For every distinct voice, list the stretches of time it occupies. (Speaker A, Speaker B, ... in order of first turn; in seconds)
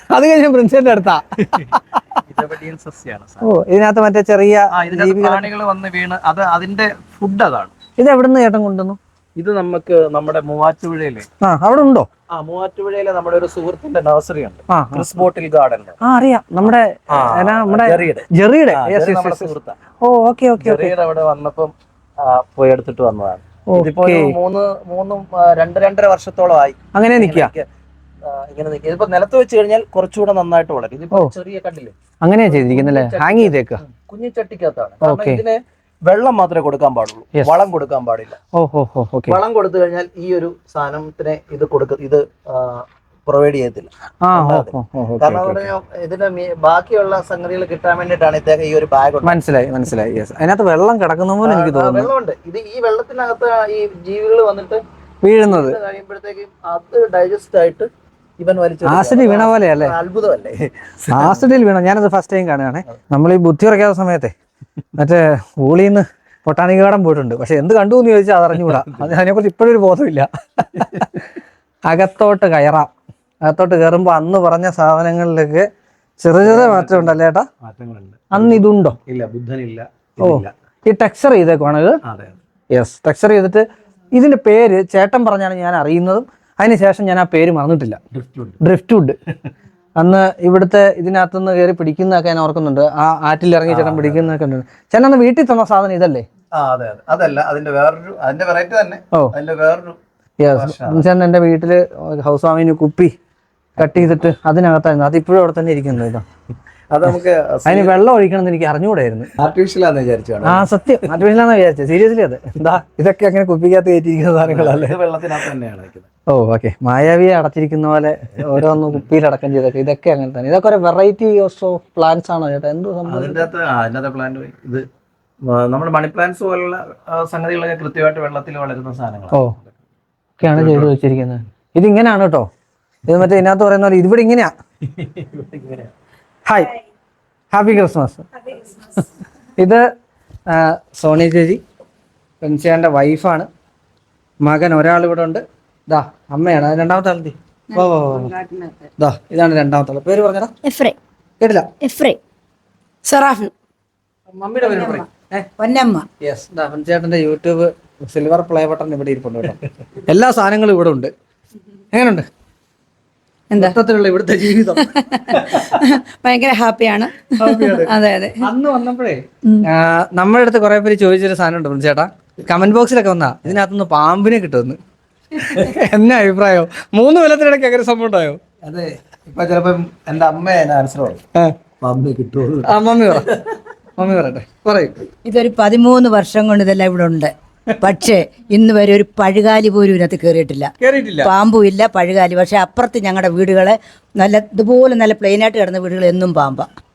Speaker A: 0.1-2.0, 3.4-5.5, 8.0-9.0, 11.4-12.1, 14.7-15.1, 16.0-19.5, 20.0-20.9, 23.7-24.4, 26.9-27.5, 32.2-33.8, 35.0-35.4, 38.5-39.4, 44.2-45.7, 49.2-52.1, 55.2-55.8, 58.8-59.9, 61.1-64.3, 65.0-71.2, 71.9-72.9, 73.4-75.7, 76.2-77.5, 78.3-79.0, 80.2-82.0, 82.7-88.0, 88.6-89.1, 90.0-96.2, 100.4-103.1, 103.8-106.2, 107.7-109.3, 110.4-115.0, 116.3-123.4, 130.4-132.5, 133.1-134.5, 136.4-136.7, 137.5-138.3, 139.6-139.8, 140.5-141.6, 142.4-143.5, 144.4-148.3, 149.0-150.5, 151.4-151.7, 154.3-155.5, 156.2-161.1, 161.9-162.3, 163.6-164.9, 167.4-174.8, 175.3-178.4, 182.6-183.3, 183.9-185.0, 190.8-191.3
Speaker B: 2.2-3.5, 4.7-7.7, 9.3-11.3, 12.3-16.0, 16.6-19.8, 20.6-27.7, 28.2-31.9, 32.5-38.4, 39.3-49.4, 51.4-54.8, 55.5-57.9, 58.4-61.5, 68.6-69.2, 70.7-71.1, 76.4-80.5, 82.0-82.4, 88.1-88.6, 93.7-94.3, 96.5-100.0, 100.5-101.1, 106.9-108.0, 109.3-110.7, 114.4-116.1, 123.0-124.8, 125.4-129.7, 130.5-130.9, 134.8-135.9, 175.4-175.8, 178.6-181.2, 181.8-183.5
Speaker C: 147.7-148.8, 153.0-153.5, 163.5-163.8, 164.7-168.4
Speaker D: 150.6-150.9, 151.8-152.2, 154.6-155.1, 155.6-156.1, 185.2-196.7